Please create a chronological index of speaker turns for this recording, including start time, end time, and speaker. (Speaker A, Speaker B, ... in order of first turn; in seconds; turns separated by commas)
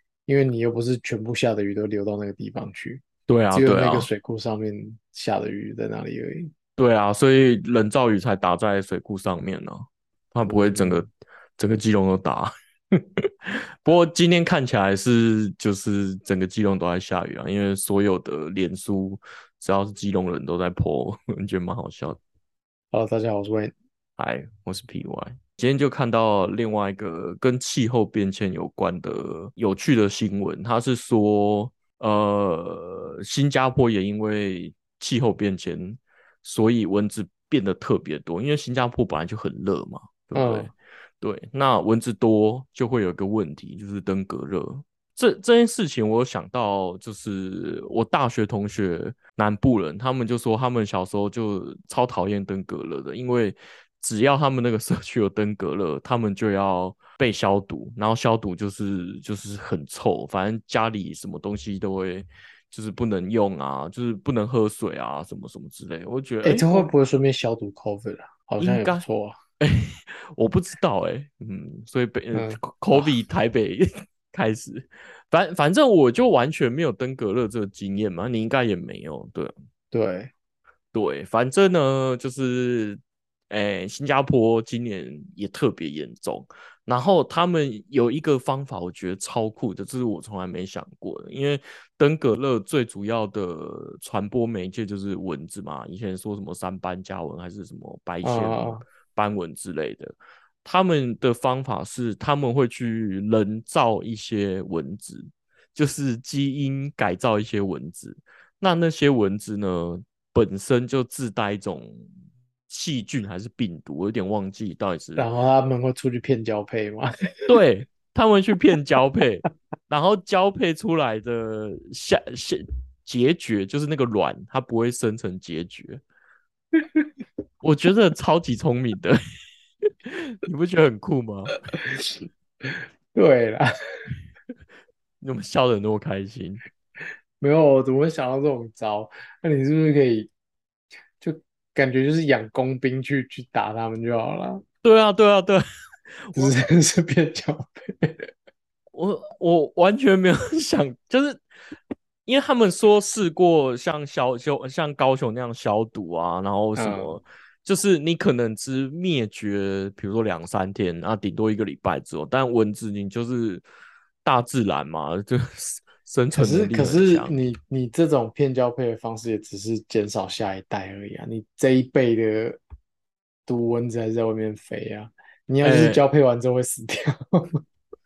Speaker A: 0.3-6.5, Speaker B: 3.3-4.1, Speaker B: 6.8-12.5, Speaker A: 10.4-11.0, Speaker B: 13.2-22.2, Speaker A: 22.9-23.7, Speaker B: 24.2-66.9, Speaker A: 40.4-40.7, Speaker A: 66.4-69.4, Speaker B: 68.6-69.0, Speaker B: 69.6-79.5, Speaker A: 72.3-73.1, Speaker A: 79.9-80.3, Speaker B: 80.9-112.1, Speaker A: 98.2-98.8, Speaker B: 112.7-115.3, Speaker A: 115.2-117.6, Speaker B: 117.5-126.0, Speaker A: 126.8-127.1, Speaker B: 127.6-129.2, Speaker B: 129.9-131.6, Speaker A: 131.7-133.7, Speaker B: 135.2-136.6, Speaker A: 137.4-140.3, Speaker A: 141.2-144.6, Speaker B: 144.8-145.6, Speaker A: 146.4-148.2, Speaker B: 148.9-151.4, Speaker B: 152.2-163.6, Speaker A: 156.8-157.2, Speaker B: 164.2-167.4, Speaker A: 166.3-172.6, Speaker A: 173.5-177.6, Speaker B: 175.6-176.1